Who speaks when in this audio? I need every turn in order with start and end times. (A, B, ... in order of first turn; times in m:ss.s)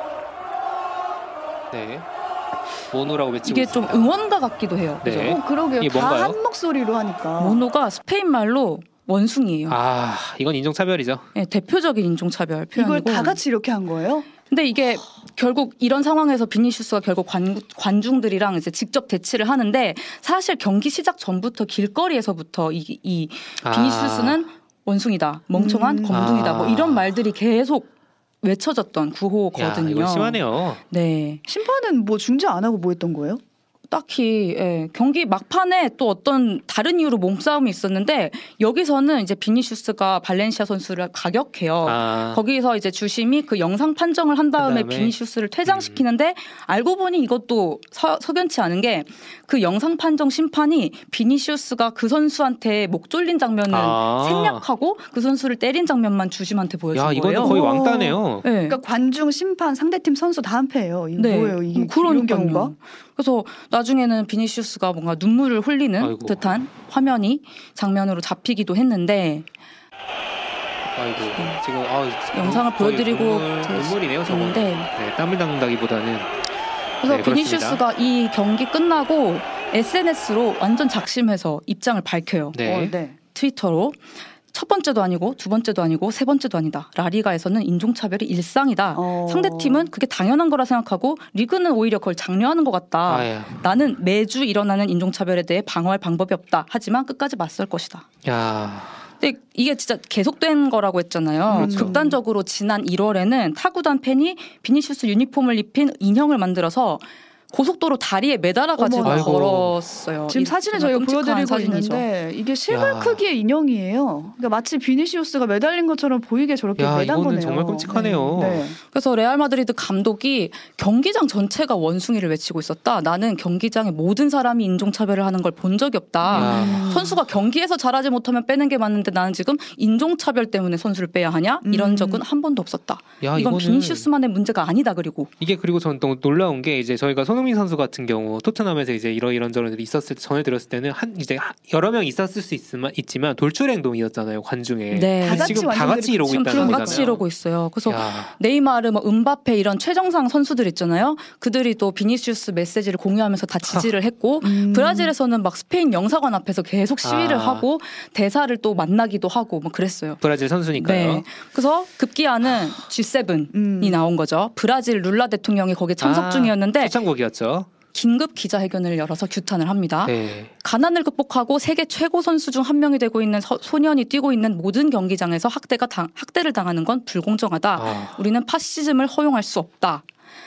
0:01.7-0:02.1 A
0:02.9-0:04.1 A
0:03.4-0:05.4 B
0:05.0-0:06.4 A
0:05.2-0:07.6 C
0:07.4-0:09.8 B
0:09.7-0:11.2 A
0:11.3-0:13.4 B
0:12.7-0:14.3 C
0:14.5-0:27.9 B
0:23.6-0:24.4 A
0:25.5-0:26.3 C
0:26.1-0:27.0 A
0:28.4-0:31.4 B
0:29.5-0:30.8 A
0:31.5-0:33.4 C
0:33.9-0:57.6 B
0:41.8-0:42.4 A
0:44.6-0:45.1 A
0:45.6-0:46.0 A
0:53.7-0:54.6 A
0:56.9-0:58.4 A
0:57.4-1:02.7 C
0:58.4-0:58.8 B
1:01.2-1:09.5 B
1:06.0-1:06.6 A
1:10.9-1:16.3 A
1:12.3-1:14.9 B
1:17.0-1:22.6 B
1:17.0-1:17.8 A
1:22.5-1:22.9 A
1:22.6-1:23.2 C
1:23.3-1:24.0 B
1:24.5-1:38.0 B
1:28.9-1:29.9 C
1:33.0-1:33.8 A
1:38.2-1:39.0 A
1:39.2-1:52.0 B
1:41.5-1:42.2 C
1:41.5-1:41.9 A
1:48.8-1:49.5 C
1:49.0-1:49.7 A
1:50.3-1:58.8 C
1:52.7-1:53.2 A
1:56.8-1:58.6 A
1:58.8-2:15.3 B
2:06.2-2:07.2 C
2:06.3-2:06.9 A
2:11.6-2:12.2 C
2:13.2-2:14.1 A
2:15.4-2:27.2 A
2:24.9-2:40.2 B
2:25.2-2:27.2 C
2:27.8-2:28.3 A
2:34.4-2:35.1 C
2:37.0-2:37.6 A
2:40.2-2:41.2 A
2:40.7-2:47.0 B
2:43.5-2:44.0 C
2:46.0-2:47.7 A
2:47.9-3:00.0 B
2:50.0-2:50.5 A
2:57.7-2:58.2 A